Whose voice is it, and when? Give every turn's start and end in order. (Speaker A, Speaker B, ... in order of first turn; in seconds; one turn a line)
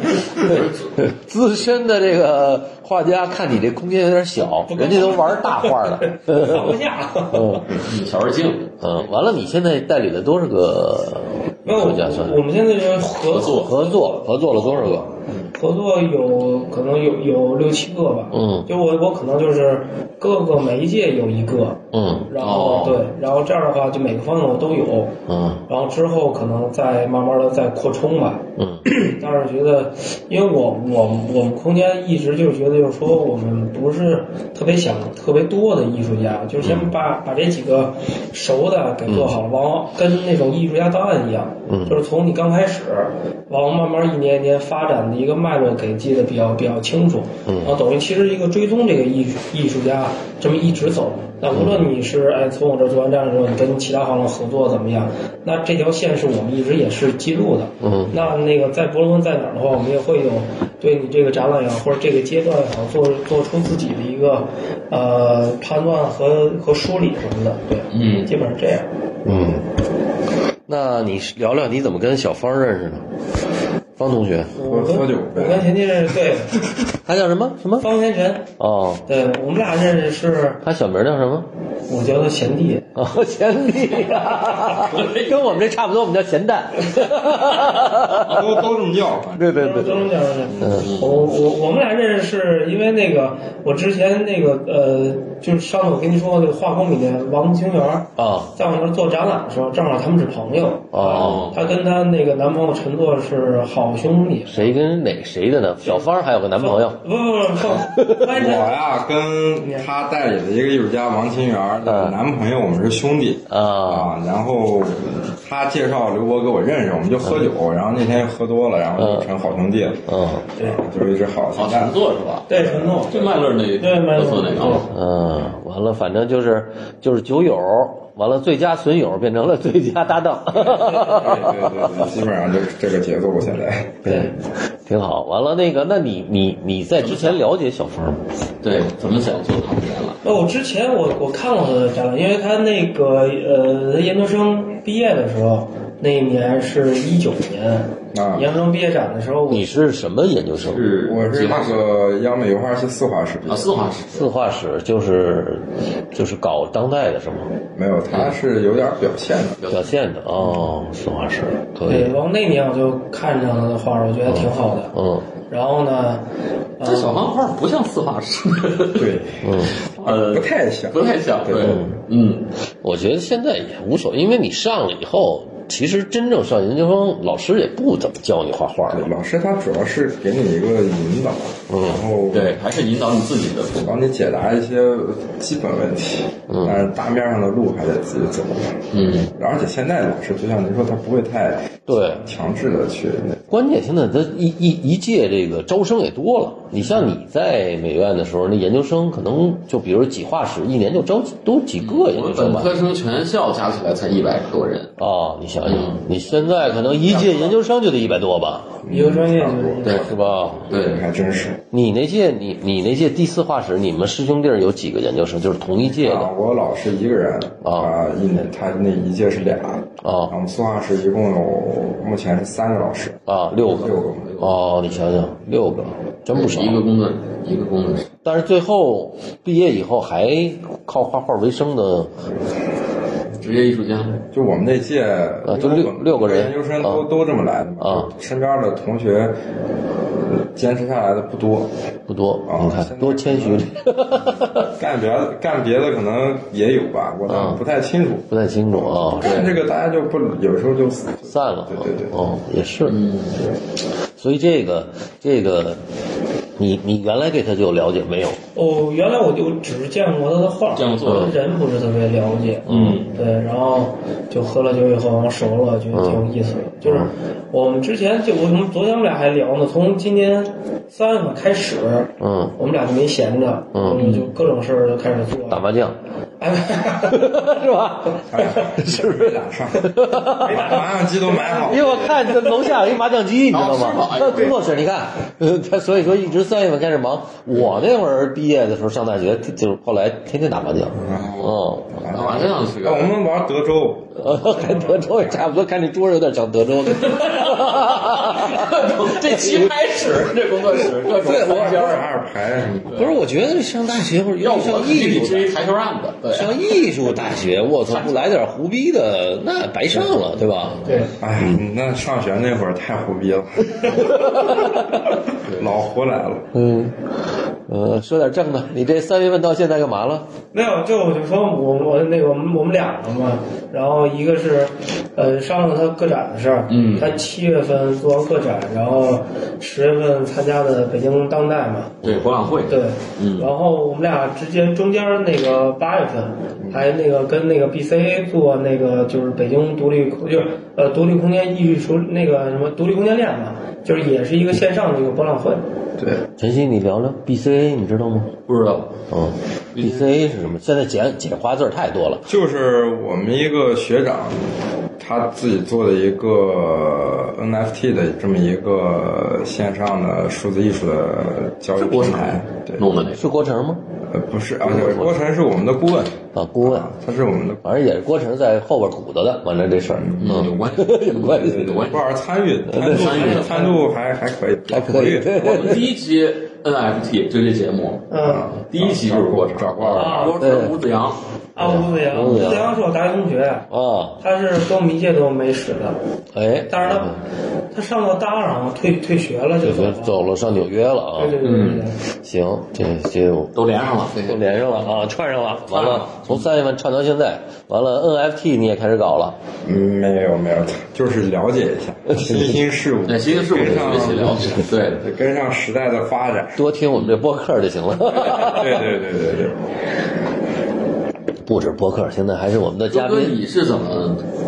Speaker A: 0.3-1.1
Speaker B: 0.5-6.8
Speaker C: 4.7-7.7
Speaker B: 7.3-7.8
Speaker A: 7.8-8.9
Speaker B: 8.8-12.4
Speaker C: 11.6-14.3
Speaker A: 13.3-13.7
Speaker B: 13.6-15.1
Speaker C: 15.5-25.1
Speaker B: 18.3-18.7
Speaker B: 21.9-22.3
Speaker A: 22.4-23.1
Speaker B: 25.3-25.6
Speaker C: 25.7-68.9
Speaker B: 28.6-28.9
Speaker B: 36.6-36.9
Speaker B: 41.7-42.0
Speaker B: 47.5-47.8
Speaker B: 51.5-51.9
Speaker B: 57.8-58.1
Speaker A: 67.9-68.3
Speaker B: 69.2-69.7
Speaker B: 70.7-73.0
Speaker B: 74.0-74.6
Speaker C: 74.5-76.5
Speaker D: 74.6-75.7
Speaker B: 76.9-77.9
Speaker C: 77.8-78.5
Speaker B: 78.6-79.0
Speaker C: 79.0-80.6
Speaker B: 80.6-81.5
Speaker C: 81.9-82.9
Speaker B: 82.9-88.7
Speaker A: 84.5-85.6
Speaker D: 88.1-89.5
Speaker A: 88.2-88.5
Speaker B: 89.3-90.1
Speaker C: 89.5-104.7
Speaker B: 90.6-90.9
Speaker A: 90.6-91.2
Speaker B: 98.2-98.5
Speaker B: 100.9-101.5
Speaker A: 101.1-101.6
Speaker B: 104.5-107.0
Speaker C: 106.6-108.7
Speaker D: 108.3-122.0
Speaker C: 109.6-109.9
Speaker B: 111.8-112.2
Speaker B: 113.5-114.1
Speaker B: 119.0-119.3
Speaker B: 120.0-120.5
Speaker A: 121.5-124.9
Speaker C: 122.5-124.9
Speaker D: 122.5-123.0
Speaker B: 124.9-132.1
Speaker D: 130.8-134.0
Speaker B: 134.0-138.2
Speaker C: 134.0-134.3
Speaker A: 137.0-137.4
Speaker A: 138.6-140.2
Speaker C: 140.2-149.7
Speaker D: 148.1-148.5
Speaker B: 149.5-150.9
Speaker A: 150.6-151.9
Speaker D: 151.0-153.8
Speaker A: 153.5-154.3
Speaker B: 154.1-157.5
Speaker D: 157.7-159.6
Speaker A: 158.1-158.4
Speaker A: 159.6-159.9
Speaker B: 159.7-162.2
Speaker C: 161.8-164.9
Speaker B: 164.3-165.3
Speaker C: 165.5-166.2
Speaker C: 166.8-167.2
Speaker A: 166.8-172.5
Speaker D: 168.9-171.9
Speaker B: 169.4-169.8
Speaker B: 172.8-179.1
Speaker D: 178.9-182.6
Speaker B: 181.7-182.1
Speaker A: 182.3-184.0
Speaker D: 183.8-188.8
Speaker B: 186.5-186.8
Speaker A: 188.9-189.3
Speaker D: 189.3-193.4
Speaker B: 191.9-192.2
Speaker B: 193.5-202.7
Speaker A: 201.8-204.9
Speaker B: 205.0-208.8
Speaker A: 205.6-207.6
Speaker D: 208.8-211.6
Speaker C: 208.9-210.0
Speaker B: 209.8-210.7
Speaker A: 210.7-211.1
Speaker B: 211.7-216.3
Speaker D: 215.9-224.3
Speaker B: 217.6-217.9
Speaker B: 220.0-220.3
Speaker B: 223.2-226.8
Speaker A: 223.9-224.6
Speaker A: 226.3-228.1
Speaker B: 228.2-232.3
Speaker A: 233.4-234.2
Speaker D: 234.3-239.4
Speaker B: 235.4-237.0
Speaker B: 237.8-238.1
Speaker D: 240.0-241.7
Speaker B: 242.1-244.7
Speaker D: 242.5-243.7
Speaker D: 244.5-252.1
Speaker B: 247.3-247.6
Speaker B: 248.3-249.6
Speaker A: 249.2-249.6
Speaker B: 251.3-253.0
Speaker A: 252.8-253.5
Speaker B: 254.2-255.8
Speaker B: 256.6-258.4
Speaker C: 258.5-275.7
Speaker A: 260.7-261.3
Speaker B: 262.7-263.0
Speaker A: 262.7-263.1
Speaker B: 265.9-266.2
Speaker B: 266.8-267.1
Speaker B: 272.2-272.5
Speaker B: 273.7-274.0
Speaker A: 273.9-274.3
Speaker B: 275.5-275.9
Speaker C: 276.4-277.5
Speaker B: 277.1-280.8
Speaker D: 278.3-282.1
Speaker C: 280.4-282.7
Speaker B: 281.6-292.0
Speaker A: 283.5-284.7
Speaker D: 291.1-291.3
Speaker A: 291.1-293.2
Speaker D: 292.0-295.3
Speaker B: 294.1-299.7
Speaker A: 297.1-303.1
Speaker B: 300.8-302.0
Speaker D: 301.3-303.0
Speaker B: 302.9-305.5
Speaker A: 304.4-308.3
Speaker B: 306.3-310.8
Speaker C: 310.8-311.1
Speaker D: 311.2-316.5
Speaker B: 313.9-314.8
Speaker A: 315.4-315.7
Speaker B: 316.5-320.3
Speaker C: 320.5-332.0
Speaker A: 326.7-327.2
Speaker A: 332.0-333.5
Speaker C: 332.7-345.6
Speaker B: 346.2-348.4
Speaker A: 348.5-349.0
Speaker B: 349.1-352.3
Speaker A: 349.7-350.1
Speaker D: 352.3-362.9
Speaker A: 361.8-363.3
Speaker B: 363.2-363.8
Speaker D: 364.1-367.6
Speaker B: 364.6-365.1
Speaker B: 366.3-366.9
Speaker B: 367.6-371.8
Speaker D: 369.9-370.6
Speaker A: 370.2-372.1
Speaker D: 371.2-375.7
Speaker B: 372.7-373.4
Speaker A: 372.7-373.8
Speaker B: 374.7-375.9
Speaker A: 375.3-381.2
Speaker C: 378.1-378.5
Speaker D: 378.2-380.3
Speaker B: 379.8-380.7
Speaker C: 379.9-380.4
Speaker C: 381.5-383.7
Speaker B: 381.6-382.7
Speaker B: 383.7-384.2
Speaker C: 384.2-386.0
Speaker B: 386.3-387.2
Speaker C: 386.7-387.2
Speaker C: 387.7-390.2
Speaker B: 389.6-391.4
Speaker C: 391.2-392.0
Speaker A: 391.4-391.9
Speaker B: 392.1-393.6
Speaker A: 393.5-395.1
Speaker B: 394.2-399.4
Speaker A: 395.7-396.5
Speaker D: 399.6-406.6
Speaker B: 402.1-402.5
Speaker A: 403.1-405.0
Speaker B: 406.6-408.9
Speaker A: 406.9-407.2
Speaker D: 408.2-409.6
Speaker B: 411.4-413.4
Speaker A: 412.9-414.2